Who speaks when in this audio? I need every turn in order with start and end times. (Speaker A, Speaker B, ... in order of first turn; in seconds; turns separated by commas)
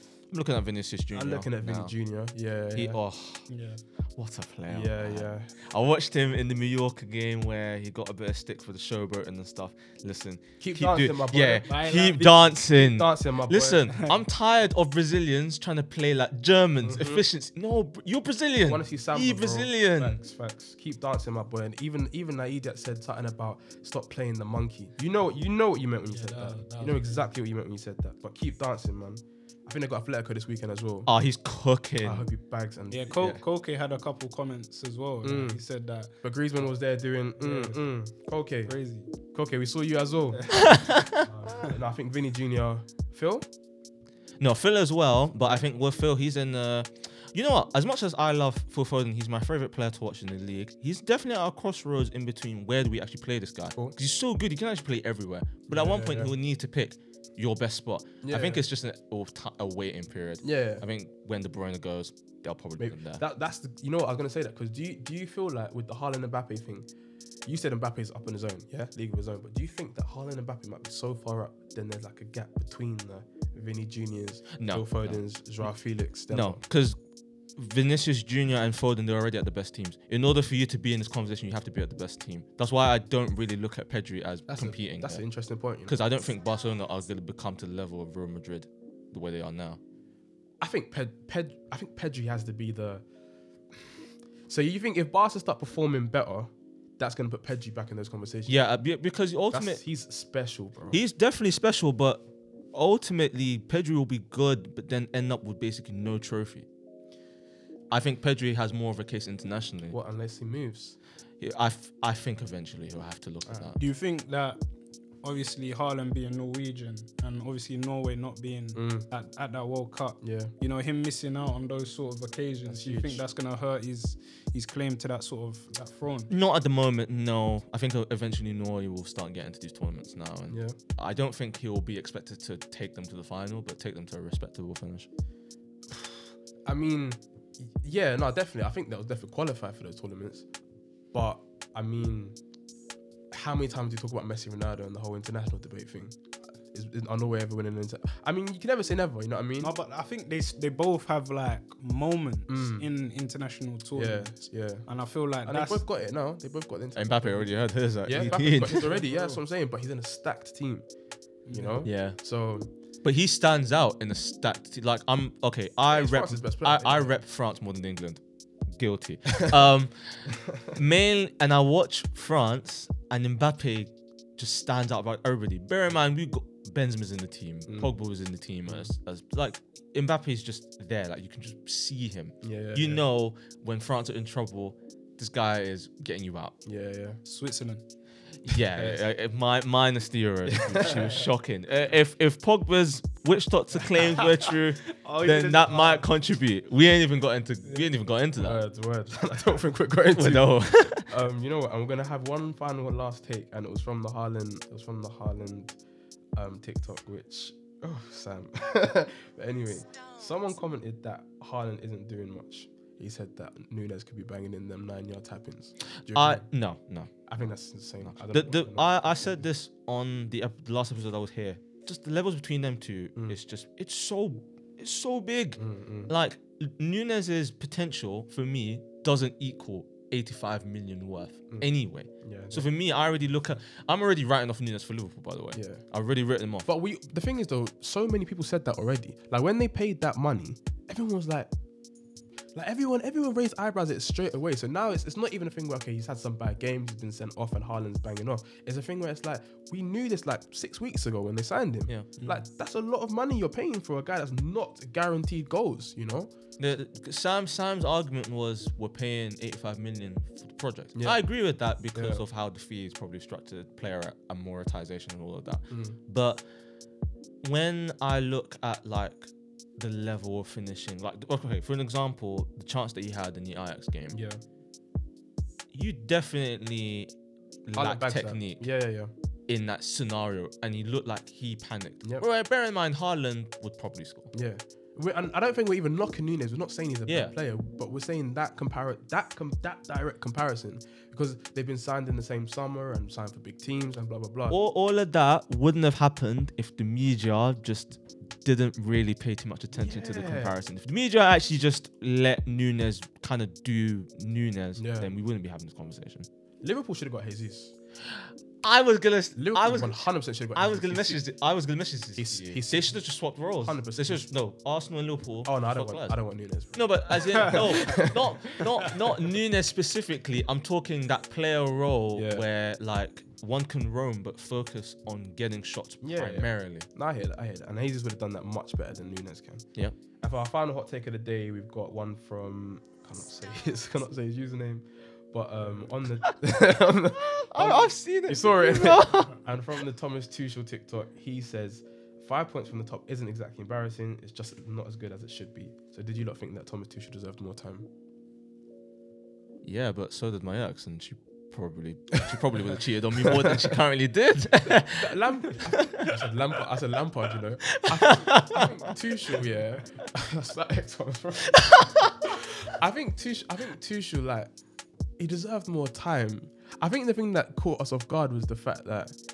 Speaker A: 0.3-1.9, Speaker B: 1.1-3.0, Speaker A: 2.7-3.5, Speaker C: 3.5-3.8, Speaker A: 4.2-20.2, Speaker B: 4.7-5.5, Speaker B: 10.6-13.9, Speaker C: 11.7-12.4, Speaker B: 16.8-17.2, Speaker B: 18.6-31.1, Speaker C: 26.1-27.2, Speaker A: 31.1-32.2, Speaker B: 32.0-33.2, Speaker C: 32.9-36.1, Speaker A: 33.1-33.4, Speaker B: 35.2-35.6, Speaker B: 36.2-38.7, Speaker C: 37.4-37.8, Speaker C: 38.7-39.1, Speaker B: 39.3-40.5, Speaker A: 40.5-41.2, Speaker B: 41.2-43.5, Speaker A: 44.4-63.2, Speaker B: 55.7-56.3, Speaker B: 58.2-58.6, Speaker B: 60.4-60.8, Speaker B: 62.8-66.9, Speaker B: 67.4-76.6, Speaker A: 74.5-75.2, Speaker A: 76.3-77.0, Speaker A: 77.5-85.2, Speaker B: 84.5-86.0, Speaker A: 85.8-89.8, Speaker B: 90.6-93.0, Speaker B: 94.5-98.6, Speaker A: 98.5-99.8, Speaker B: 99.5-101.0, Speaker A: 100.9-106.7, Speaker A: 107.9-110.0, Speaker B: 109.9-111.0, Speaker A: 111.4-113.8, Speaker C: 113.8-114.6, Speaker C: 115.2-126.3, Speaker B: 118.7-119.1, Speaker B: 120.2-120.5, Speaker B: 122.7-123.2, Speaker A: 126.3-135.1, Speaker B: 130.5-130.8, Speaker B: 135.9-140.4, Speaker B: 141.1-142.4, Speaker B: 143.3-146.2, Speaker B: 146.7-149.7, Speaker C: 149.6-155.8, Speaker B: 152.5-152.9, Speaker B: 153.9-154.8, Speaker B: 155.4-157.5, Speaker A: 156.9-158.9, Speaker B: 158.0-160.9, Speaker C: 158.1-159.4, Speaker C: 161.4-161.8, Speaker B: 161.5-162.7, Speaker A: 161.8-162.2, Speaker A: 163.0-186.5, Speaker B: 165.9-167.1, Speaker B: 177.7-177.9, Speaker B: 182.4-183.0, Speaker B: 186.6-187.2, Speaker C: 187.2-187.8, Speaker A: 188.4-198.6, Speaker B: 190.5-191.1, Speaker C: 193.9-196.1, Speaker B: 198.4-205.8, Speaker A: 200.1-201.1, Speaker B: 206.3-216.4, Speaker A: 216.0-217.2, Speaker B: 217.3-219.4, Speaker A: 218.0-236.7, Speaker B: 225.6-226.1, Speaker B: 232.2-232.7, Speaker B: 235.5-235.8, Speaker B: 236.6-241.5, Speaker B: 242.5-256.3, Speaker A: 256.6-266.4, Speaker B: 260.9-261.2, Speaker B: 261.9-262.2, Speaker B: 265.7-266.0, Speaker A: 267.4-274.2, Speaker B: 274.1-274.4, Speaker A: 275.7-277.1, Speaker A: 277.6-278.6, Speaker B: 277.8-279.1, Speaker A: 279.5-284.3, Speaker B: 284.3-294.6, Speaker A: 287.1-287.3, Speaker A: 294.5-306.3, Speaker B: 299.7-300.6, Speaker B: 304.8-305.1, Speaker B: 306.6-307.7, Speaker A: 308.1-310.0, Speaker B: 309.4-311.2, Speaker A: 310.5-316.2, Speaker B: 312.2-312.9, Speaker B: 313.6-314.3, Speaker B: 315.4-318.6, Speaker A: 316.7-326.9, Speaker B: 322.1-322.4, Speaker B: 326.0-329.7, Speaker B: 330.2-347.9, Speaker A: 337.2-339.4, Speaker A: 349.6-356.1, Speaker B: 353.2-353.7, Speaker B: 354.7-361.6, Speaker A: 357.6-358.9, Speaker A: 361.5-362.3, Speaker B: 362.2-364.5, Speaker B: 365.2-369.1